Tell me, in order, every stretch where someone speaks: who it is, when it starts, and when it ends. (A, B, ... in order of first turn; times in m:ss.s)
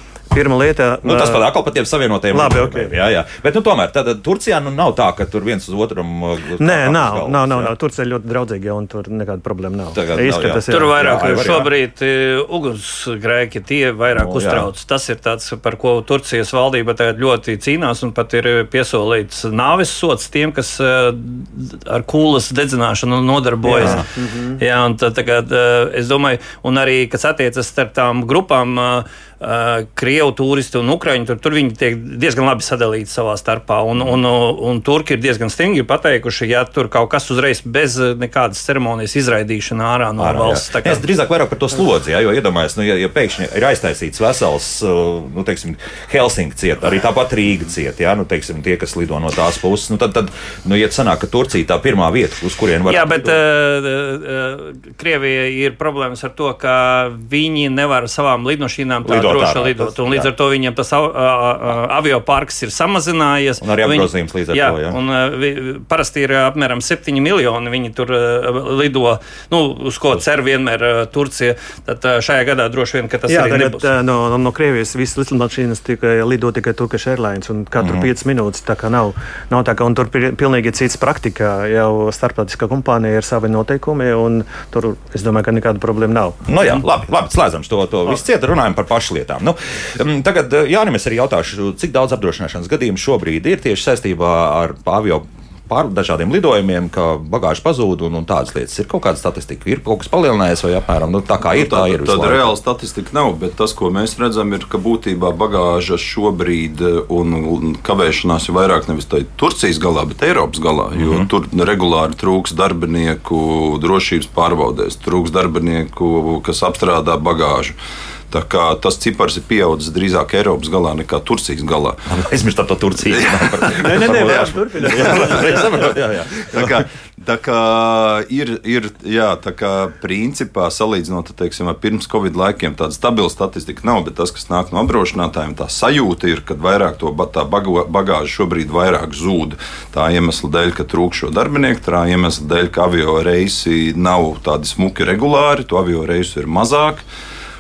0:00.3-0:01.5 A
0:01.0-0:07.7 B
0:02.3-0:02.9 A
0:06.6-0:11.6 A
0:09.9-0:11.7 B
0:10.7-0:24.1 C
0:14.2-0:14.7 B
0:23.7-0:24.6 A
0:23.8-0:24.0 B
0:24.6-0:41.0 C
0:40.2-0:53.4 B
0:52.9-1:13.8 C
0:59.0-1:00.3 B
1:03.6-1:05.0 B
1:13.3-1:26.4 A
1:17.8-1:18.1 B
1:26.4-1:42.5 B
1:41.5-1:57.7 D
1:51.0-1:51.2 B
1:58.3-2:02.0 D
2:02.1-2:06.8 B
2:03.1-2:03.7 D
2:03.7-2:05.9 A
2:05.1-2:05.4 D
2:06.4-2:27.0 D